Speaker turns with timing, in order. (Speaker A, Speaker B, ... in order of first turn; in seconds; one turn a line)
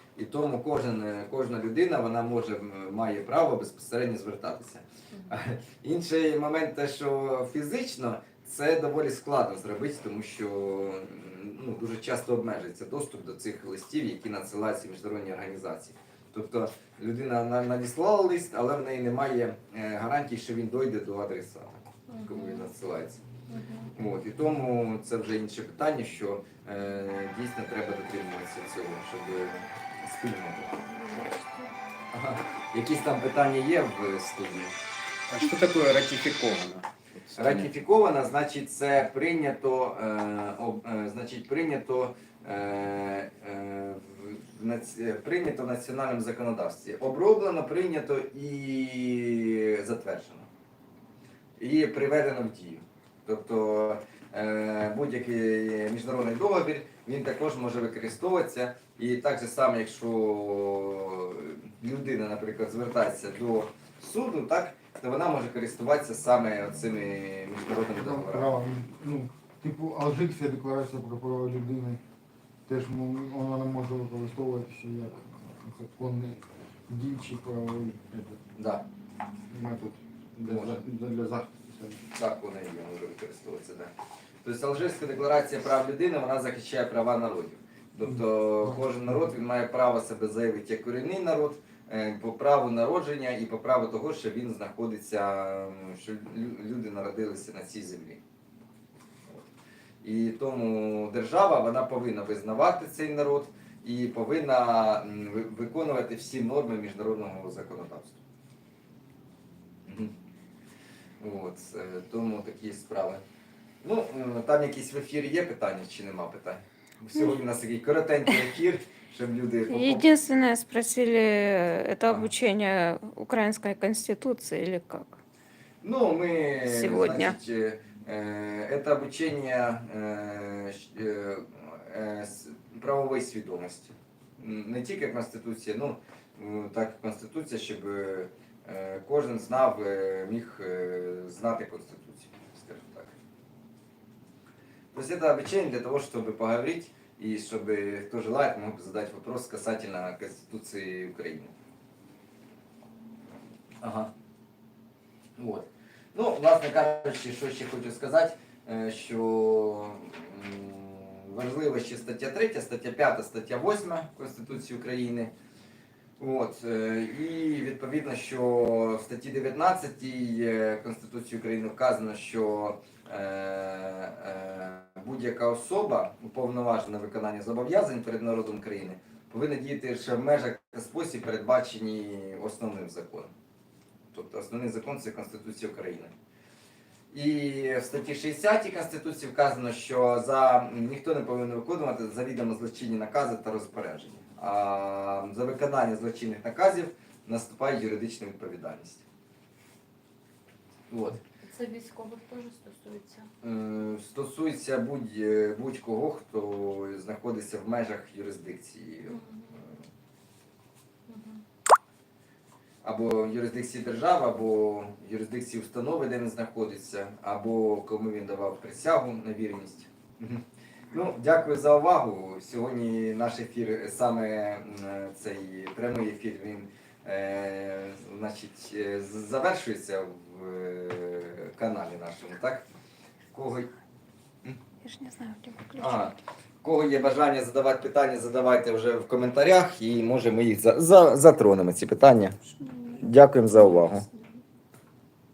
Speaker A: 0.2-23.2
Speaker B: 5.1-5.4
Speaker B: 22.1-22.7
Speaker B: 23.5-23.9
Speaker A: 23.9-30.8
Speaker B: 30.7-31.7
Speaker A: 32.1-34.8
Speaker C: 35.3-37.7
Speaker A: 37.4-50.5
Speaker A: 51.6-68.6
Speaker D: 68.0-72.0
Speaker D: 72.7-78.4
Speaker A: 78.6-78.8
Speaker D: 79.5-82.0
Speaker A: 80.5-80.8
Speaker A: 82.1-83.9
Speaker A: 84.4-98.2
Speaker D: 88.0-88.8
Speaker A: 100.0-108.2
Speaker A: 109.9-110.1
Speaker A: 111.2-113.2
Speaker A: 113.8-120.1
Speaker E: 119.7-125.2
Speaker A: 125.8-143.2
Speaker E: 126.6-127.4
Speaker A: 144.9-151.5
Speaker A: 153.8-154.1
Speaker A: 155.4-165.3
Speaker A: 166.2-183.3
Speaker A: 184.1-186.1
Speaker A: 187.1-199.0
Speaker A: 200.9-201.2
Speaker B: 201.4-203.3
Speaker A: 203.4-209.8
Speaker B: 209.1-209.6
Speaker B: 211.1-211.4
Speaker A: 212.8-232.7
Speaker A: 233.3-233.7
Speaker E: 234.8-236.1
Speaker A: 235.8-242.4
Speaker E: 242.6-243.0
Speaker A: 242.9-244.1